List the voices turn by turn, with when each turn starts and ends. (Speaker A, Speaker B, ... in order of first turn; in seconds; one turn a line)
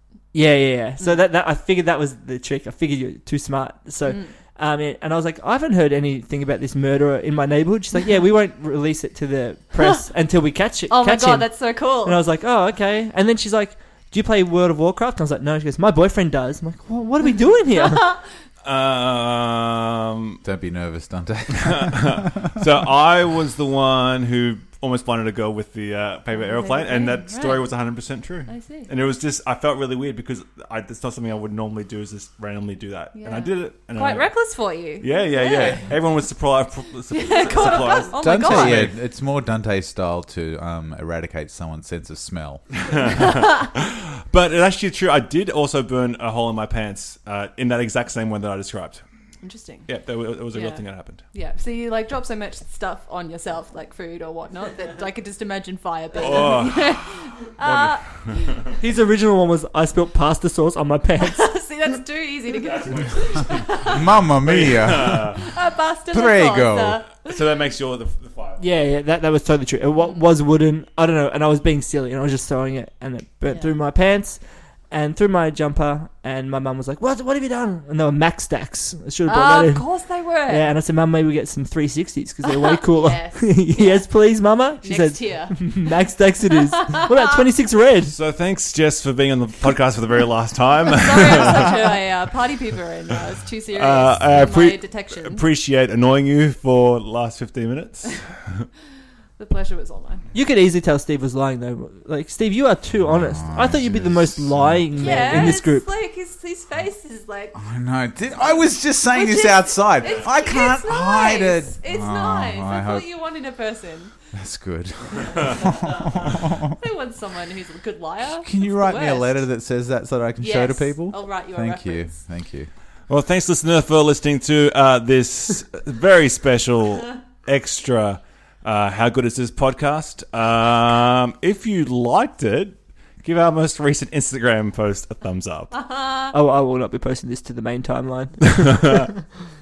Speaker A: 0.3-18.2
Speaker B: 4.0-4.3
Speaker B: 10.9-12.2
Speaker B: 17.9-18.2
Speaker C: 18.6-20.4
Speaker D: 20.4-22.4
Speaker C: 21.6-34.3
Speaker B: 26.3-27.6
Speaker B: 28.5-28.9
Speaker B: 33.1-35.9
Speaker C: 35.0-38.9
Speaker B: 37.1-38.9
Speaker D: 38.2-42.6
Speaker C: 42.9-49.0
Speaker B: 49.4-49.9
Speaker C: 49.9-51.2
Speaker B: 50.5-58.8
Speaker C: 56.2-58.7
Speaker A: 58.8-61.5
Speaker B: 61.2-64.1
Speaker C: 62.6-65.4
Speaker D: 63.9-65.4
Speaker B: 65.3-67.4
Speaker D: 66.1-67.0
Speaker C: 67.2-68.6
Speaker A: 68.6-88.1
Speaker B: 73.5-73.7
Speaker B: 79.2-80.7
Speaker B: 82.5-84.1
Speaker B: 84.8-87.0
Speaker C: 88.1-92.0
Speaker B: 90.9-95.4
Speaker C: 93.7-98.7
Speaker B: 99.4-100.3
Speaker A: 100.3-105.9
Speaker D: 103.0-105.6
Speaker B: 105.0-107.6
Speaker D: 107.5-113.1
Speaker B: 109.0-114.1
Speaker D: 114.3-116.6
Speaker B: 116.7-119.4
Speaker D: 118.2-122.7
Speaker B: 120.4-122.2
Speaker C: 123.1-135.7
Speaker B: 135.7-136.3
Speaker A: 136.3-139.2